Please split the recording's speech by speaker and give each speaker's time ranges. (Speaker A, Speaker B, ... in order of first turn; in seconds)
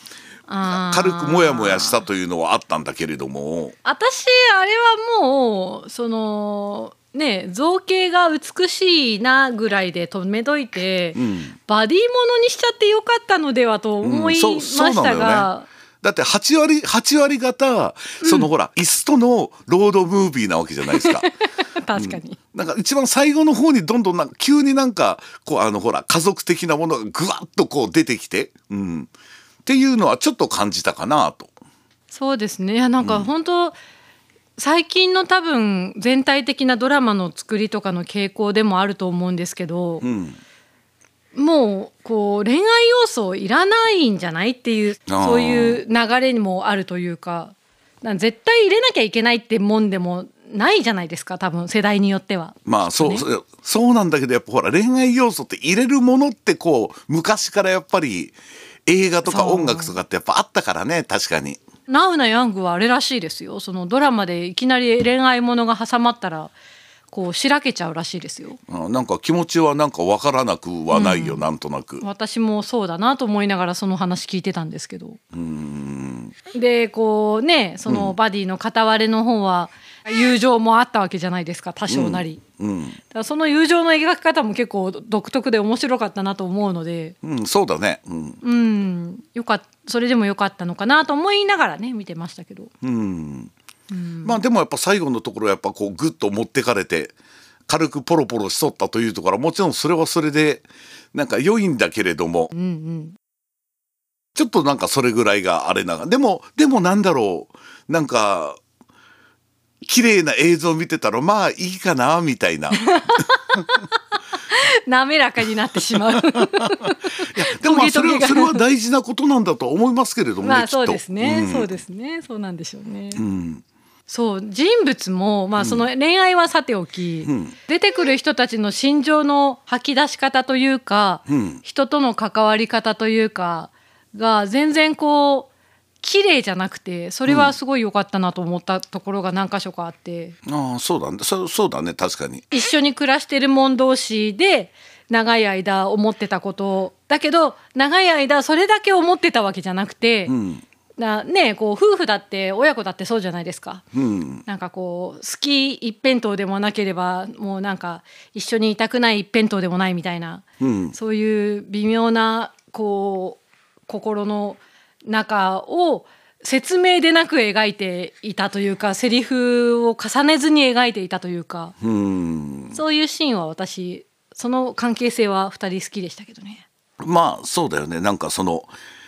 Speaker A: 0.5-2.0, 3.8-15.7, 18.2-18.5, 20.9-22.4, 32.1-33.8, 34.6-40.0, 41.3-53.2, 59.2-59.9, 61.9-66.5, 67.1-68.6, 70.9-71.4, 72.0-75.2, 76.5-82.4, 83.1-87.1, 88.4-92.7, 93.9-94.4, 102.5-103.2, 112.7-113.8, 114.5-118.6, 120.4-123.2, 124.1-135.5, 136.0-140.3, 142.5-150.3, 151.0-153.8, 154.4-171.7, 172.7-176.7
Speaker B: 0.7-3.7, 11.1-11.5, 14.0-15.5, 16.0-21.3, 21.9-29.1, 29.6-31.5, 33.0-33.3, 40.0-40.4, 45.1-45.8, 52.6-61.6, 68.7-72.0, 75.3-76.3, 77.9-78.1, 81.9-83.0, 87.2-88.4, 92.8-93.5, 94.2-97.1, 97.7-102.5, 104.3-108.6, 109.8-112.9, 116.3-121.7, 123.2-123.6, 125.6-125.8, 127.2-127.5, 131.3-131.6, 137.3-137.5, 140.4-142.4, 150.3-150.6, 153.9-154.4, 160.6-160.9, 171.8-172.8, 177.0-178.7